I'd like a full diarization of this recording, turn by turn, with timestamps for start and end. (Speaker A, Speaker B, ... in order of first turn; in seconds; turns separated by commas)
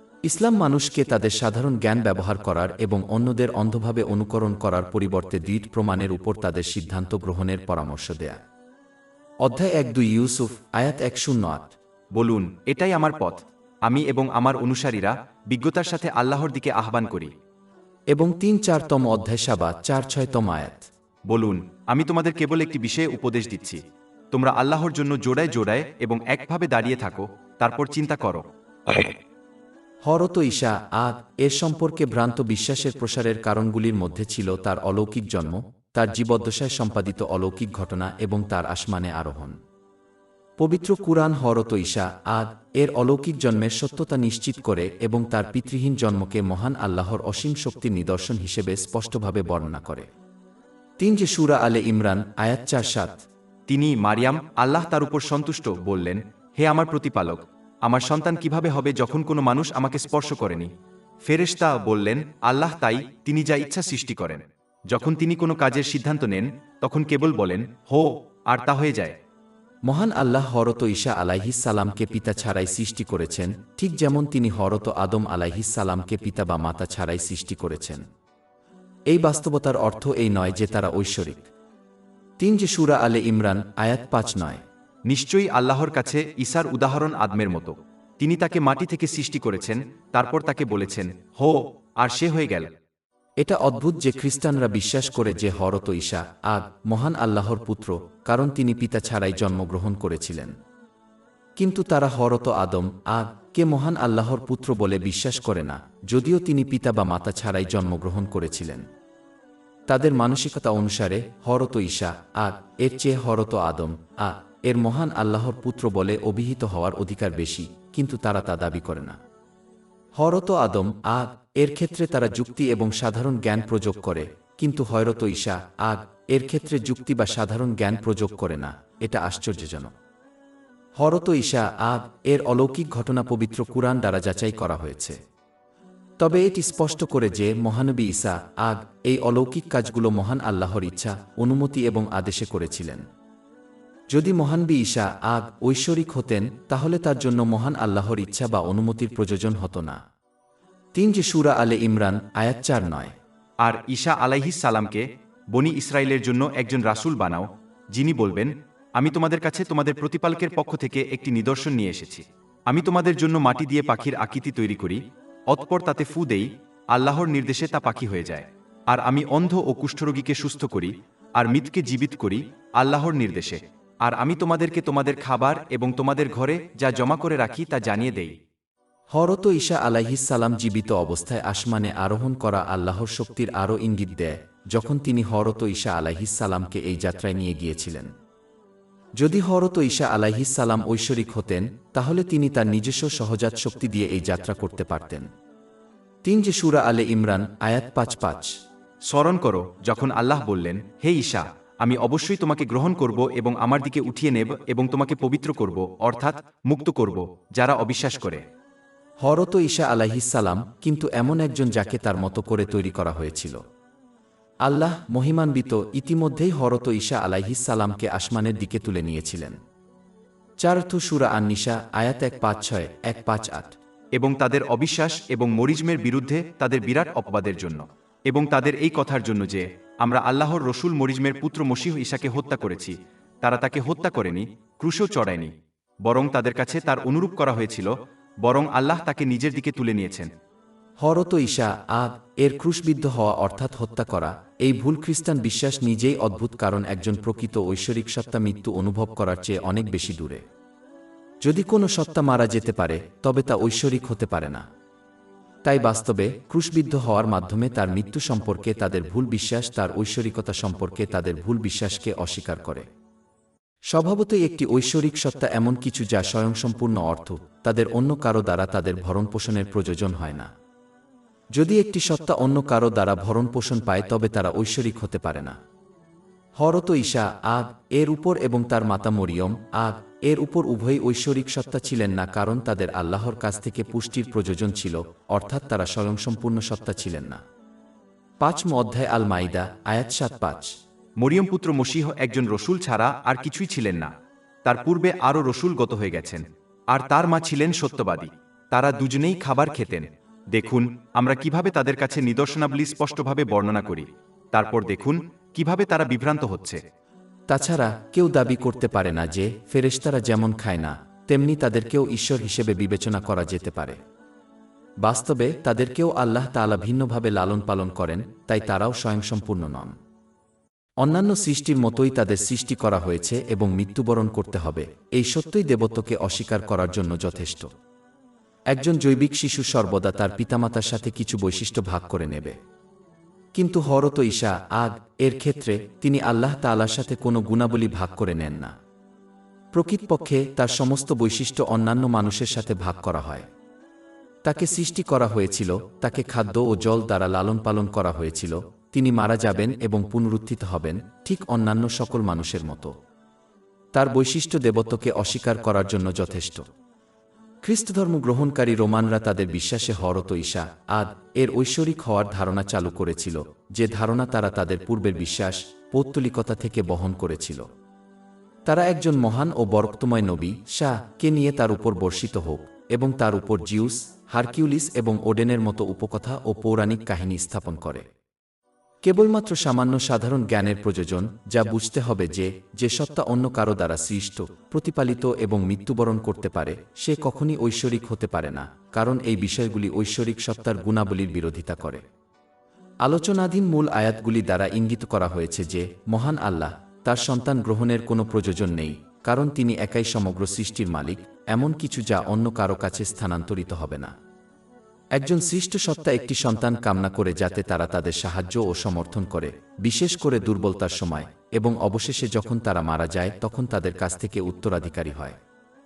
Speaker A: 0.2-8.4, Speaker A: 9.4-11.7, Speaker B: 12.1-17.3, Speaker A: 18.1-20.9, Speaker B: 21.3-23.8, Speaker B: 24.3-29.1, Speaker A: 30.0-39.6, Speaker A: 40.6-50.1, Speaker A: 51.0-53.2, Speaker B: 53.7-60.7, Speaker B: 61.2-69.1, Speaker A: 69.8-78.0, Speaker A: 79.1-81.5, Speaker A: 82.4-84.6, Speaker B: 85.1-92.7, Speaker A: 93.4-100.5, Speaker A: 101.6-108.8, Speaker A: 109.9-119.2, Speaker A: 120.2-129.9, Speaker A: 131.0-135.2, Speaker A: 136.2-143.0, Speaker A: 144.1-150.0, Speaker A: 150.9-153.1, Speaker B: 153.6-178.3, Speaker A: 179.1-188.1, Speaker A: 189.2-195.3, Speaker A: 196.2-198.5, Speaker B: 199.1-208.4, Speaker A: 209.2-213.6, Speaker A: 214.6-219.6, Speaker A: 220.6-223.8, Speaker B: 224.2-235.5, Speaker B: 236.0-237.9, Speaker B: 238.4-240.3, Speaker A: 241.0-250.4, Speaker A: 251.4-254.6, Speaker A: 255.6-262.8, Speaker A: 263.9-270.5, Speaker A: 271.5-275.6, Speaker A: 276.6-287.4, Speaker A: 288.4-290.7, Speaker B: 291.2-294.1, Speaker B: 294.6-306.8, Speaker A: 307.5-314.0, Speaker A: 315.0-319.9, Speaker A: 321.0-327.7, Speaker A: 328.7-332.6, Speaker A: 333.5-338.7, Speaker A: 339.7-343.4, Speaker A: 344.4-352.9, Speaker A: 353.9-356.6, Speaker A: 357.6-367.6, Speaker A: 368.6-378.0, Speaker A: 379.0-392.0, Speaker A: 393.0-404.1, Speaker A: 405.1-415.3